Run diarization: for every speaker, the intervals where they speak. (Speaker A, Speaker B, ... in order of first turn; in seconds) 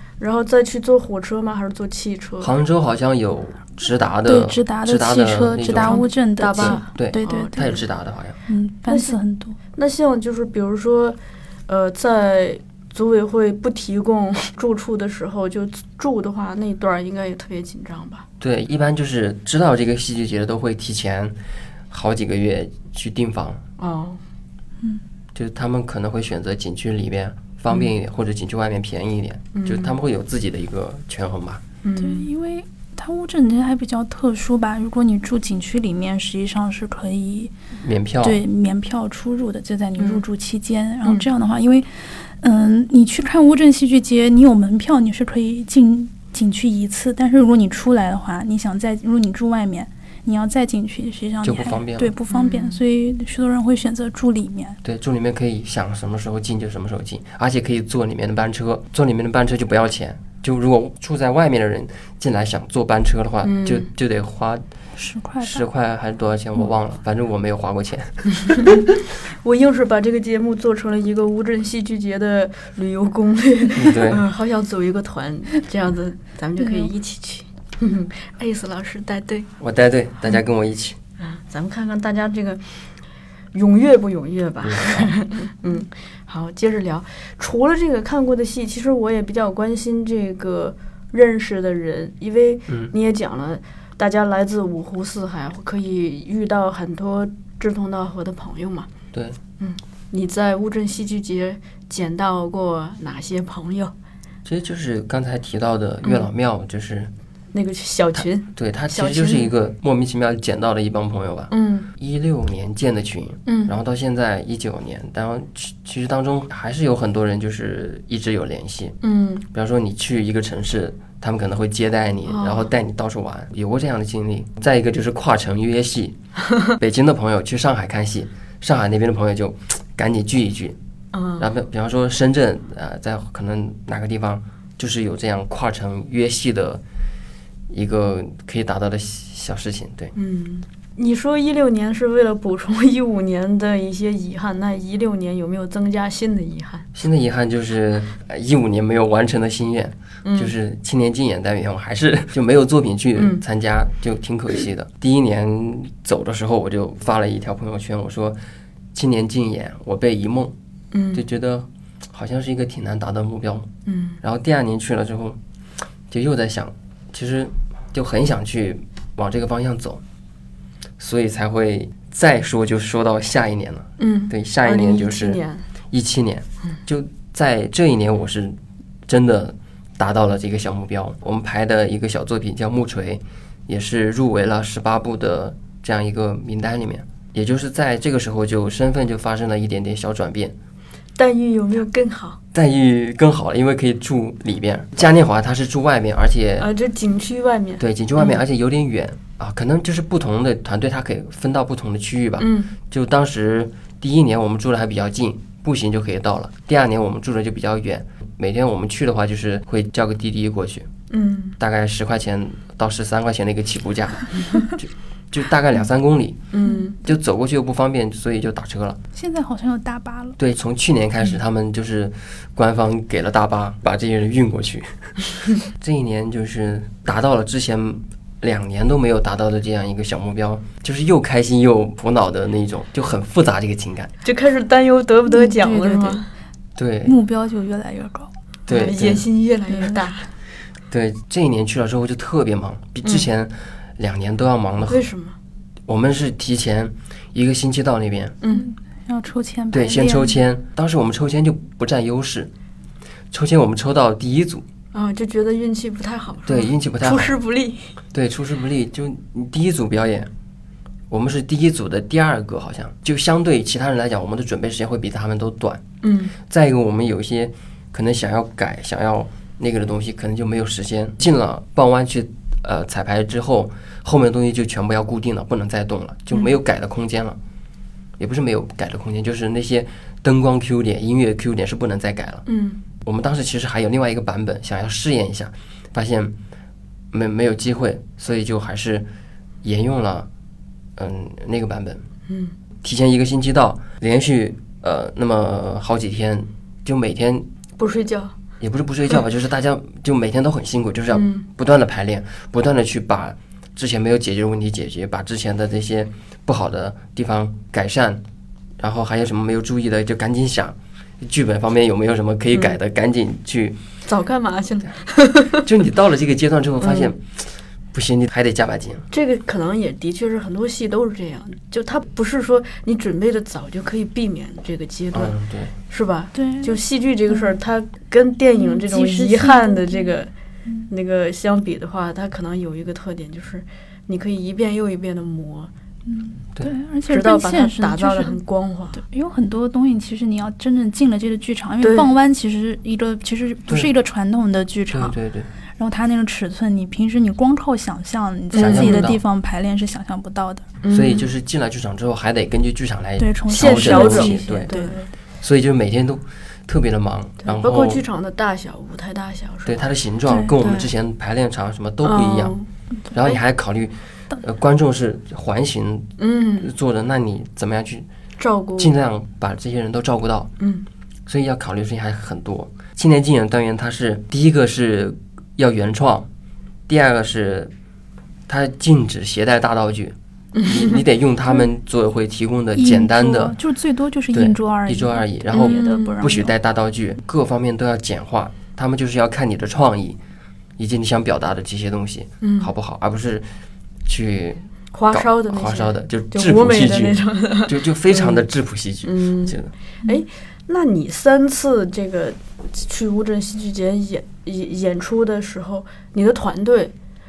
Speaker A: 0.2-2.5, 5.7-7.8, 8.9-9.2, 9.7-18.3, 23.8-24.2, 29.5-29.9, 31.8-32.3, 40.0-40.2, 52.3-52.8, 63.4-63.9, 68.3-79.5, 81.2-82.6, 83.5-98.9, 99.6-103.9, 107.5-109.5, 111.5-111.9, 113.5-113.7, 119.0-119.5, 122.3-122.7, 131.1-131.5, 140.2-146.9, 150.2-150.5, 153.2-153.4, 160.9-161.2, 163.9-164.2, 174.0-175.6, 191.2-192.4, 196.6-198.4, 202.4-202.7, 211.1-211.6, 216.5-217.0, 234.2-236.3, 238.7-240.3, 244.9-245.4, 248.4-248.7, 254.9-257.9, 266.0-266.4, 282.5-282.8, 292.3-292.6, 297.8-298.4, 301.1-301.5, 314.1-315.7, 316.8-317.1, 319.1-325.4, 325.9-330.3, 330.9-335.7, 337.1-339.0, 341.8-342.1, 348.5-349.1, 350.8-351.3, 353.5-355.1, 357.4-359.9, 360.6-360.9, 362.0-362.7, 366.2-366.7, 368.4-368.9, 370.6-370.9, 380.6-381.0, 385.5-386.2, 392.4-392.7, 394.9-398.4, 399.0-406.9
Speaker B: 2.4-8.4, 18.4-21.4, 21.9-23.6, 25.4-31.6, 37.8-38.4, 51.4-52.1, 54.8-64.6, 65.4-68.8, 73.8-74.2, 79.6-81.0, 84.6-85.1, 92.7-92.9, 99.1-99.4, 104.5-107.1, 108.2-119.0, 119.5-126.2, 126.8-130.8, 131.4-136.8, 137.7-140.1, 146.9-158.4, 158.9-160.6, 161.1-163.7, 164.2-165.4, 166.1-170.0, 171.0-175.4, 175.9-190.6, 192.5-196.7, 197.8-210.9, 211.6-216.4, 217.0-219.0, 220.4-225.1, 225.7-234.1, 236.8-237.2, 238.7-239.2, 240.9-245.0, 245.9-248.4, 249.7-252.5, 253.3-254.7, 256.5-257.3, 258.1-260.3, 261.1-265.8, 266.4-277.4, 278.2-282.5, 283.0-286.4, 287.1-289.1, 289.6-290.3, 291.0-292.1, 292.8-297.5, 298.6-308.2, 308.8-313.8, 315.5-317.4, 317.9-319.1, 325.1-325.8, 344.9-345.5, 348.6-349.2, 350.9-354.7, 355.4-358.0, 359.7-362.6, 363.1-368.1, 368.8-370.5, 371.3-376.3, 376.9-377.7, 378.5-383.6, 384.3-390.2, 390.8-393.5, 394.1-399.7
Speaker C: 4.3-7.8, 8.5-9.6, 32.0-37.5, 38.2-54.8, 65.0-65.7, 76.6-76.9, 219.1-220.4, 235.3-236.2, 237.1-238.3, 239.7-240.0, 248.5-250.4, 326.4-326.8, 328.6-330.2, 336.1-338.4, 339.0-345.1, 345.8-350.7, 353.2-355.1, 360.3-360.6, 382.8-386.5